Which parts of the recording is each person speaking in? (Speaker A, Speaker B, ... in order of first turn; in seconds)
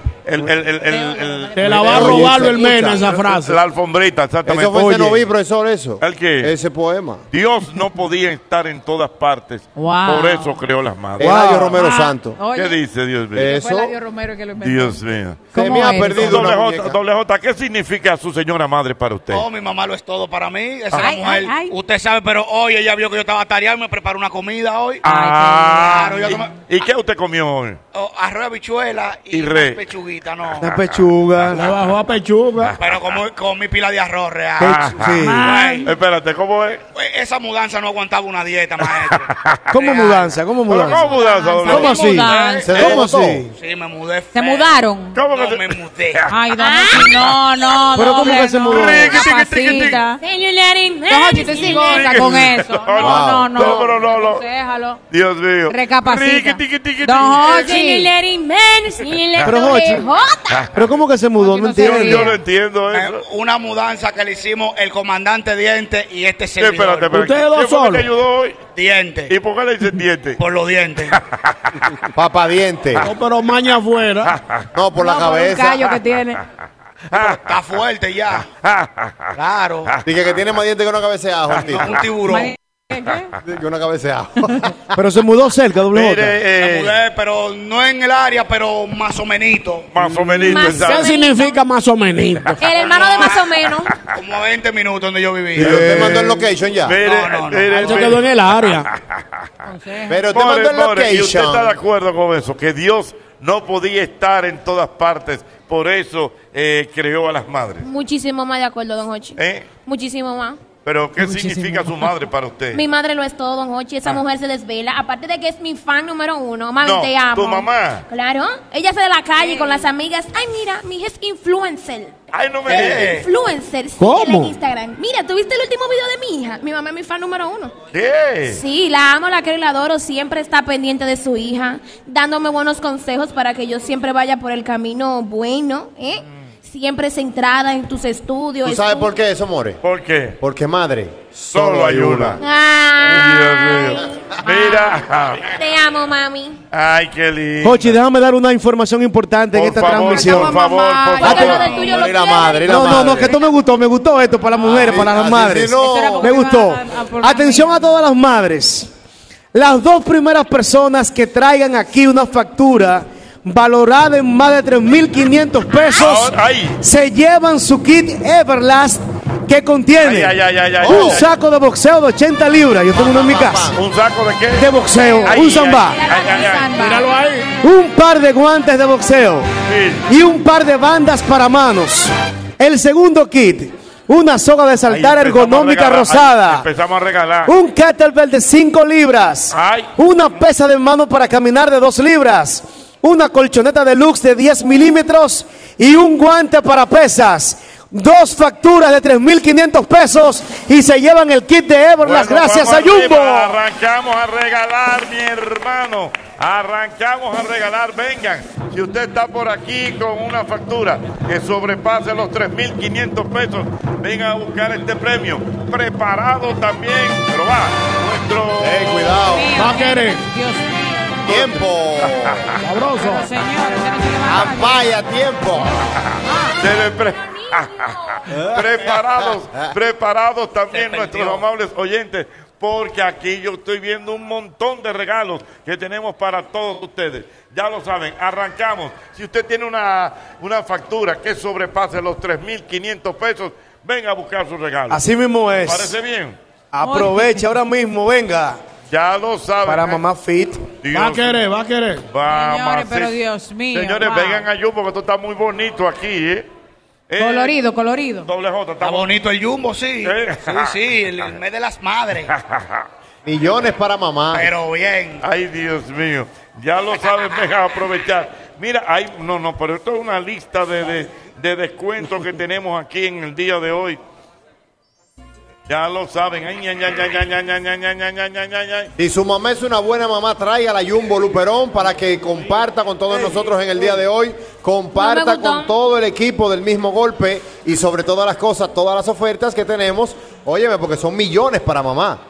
Speaker A: 0.3-2.3, 3.1-5.3, 6.0-6.5, 7.3-11.4, 12.5-13.5, 14.6-15.5, 16.1-19.5, 25.0-27.8, 29.3-29.8, 30.6-30.9, 34.6-35.1, 35.8-36.8, 39.1-40.1, 40.7-43.0, 45.1-46.2, 48.0-50.0, 51.6-54.4, 55.1-57.8, 60.5-60.8, 61.8-63.2, 66.6-68.6, 69.3-70.4, 74.3-74.6, 78.6-79.3, 81.5-82.0, 85.9-87.0, 89.9-91.1, 95.6-96.2, 96.8-99.2, 100.3-107.8, 109.4-109.7, 110.8-112.8, 116.8-118.1, 122.3-123.2, 127.9-128.6, 139.8-140.4, 141.5-142.4, 143.0-145.4, 146.7-148.0, 149.5-151.8, 166.0-166.8, 170.0-171.3, 173.7-174.7, 175.2-176.9, 179.7-180.1, 184.9-187.5, 189.5-189.9, 202.0-219.2, 221.3-222.5, 226.0-245.0, 245.6-246.4, 248.9-250.0, 250.8-251.5, 252.1-253.2, 253.7-256.5, 257.1-257.6, 258.3-259.1, 260.0-260.8, 262.3-262.9, 265.2-274.0, 275.7-278.9
Speaker B: 0.9-3.2, 9.8-10.6, 11.8-12.8, 13.4-15.0, 15.5-16.4, 20.9-21.7, 25.0-26.4, 35.2-35.9, 41.1-42.7, 44.3-45.2, 46.3-50.2, 51.1-55.0, 55.7-58.1, 61.4-62.3, 75.0-76.4, 82.3-83.3, 99.7-100.2, 119.4-119.8, 149.9-152.0, 152.9-153.5, 155.7-158.0, 176.0-177.1, 219.3-221.1, 223.0-224.9, 226.2-226.6, 246.8-247.4, 252.3-254.5, 257.2-258.3
Speaker C: 1.6-3.6, 31.5-32.8, 67.1-68.0, 73.0-74.3, 90.2-92.6, 97.8-98.9, 124.0-124.5, 176.8-177.5, 219.6-220.2, 222.6-223.3, 250.9-252.1
Speaker D: 1.8-3.0, 4.5-7.2, 11.2-12.4, 13.3-13.9, 15.5-17.0, 42.7-43.5, 53.0-53.8, 72.2-73.1, 74.7-75.9, 80.0-82.0, 83.4-84.8, 95.6-97.0, 100.1-101.7, 138.6-139.8, 140.4-142.4, 151.8-153.3, 154.6-156.3, 170.8-171.2, 172.9-173.8, 218.6-219.7, 221.3-222.5, 224.2-225.8, 229.2-229.7, 263.2-264.5, 279.0-292.2
Speaker E: 11.2-11.8, 30.6-31.7, 34.6-35.5, 39.7-41.1, 41.7-43.5, 48.0-49.1, 59.4-60.1, 60.7-62.3, 85.0-86.4, 95.6-96.4, 147.6-150.6, 152.7-158.9, 159.5-173.7, 174.6-176.0, 177.6-179.5, 180.1-186.7, 187.4-203.6, 244.9-245.9, 246.7-248.6, 249.7-250.6
Speaker F: 19.3-25.0, 25.8-26.5, 27.9-30.7, 32.8-34.9, 35.4-35.9, 36.9-39.3, 42.3-42.7, 43.5-44.8, 45.3-46.2, 62.9-67.1, 68.8-69.3, 70.4-71.2, 77.1-78.5, 79.3-80.0, 81.7-82.5, 86.6-89.9, 92.6-93.6, 94.1-95.8, 97.0-98.2, 122.7-123.3, 230.7-231.4, 258.8-262.3, 264.3-265.2
Speaker G: 46.6-47.2, 50.2-52.2, 57.4-60.7, 90.4-91.6, 92.6-93.9, 107.8-110.6, 112.7-122.2, 122.7-127.7, 128.5-139.1, 142.4-145.0, 145.5-146.6, 151.2-152.9, 176.1-177.0, 227.4-227.9, 284.9-285.7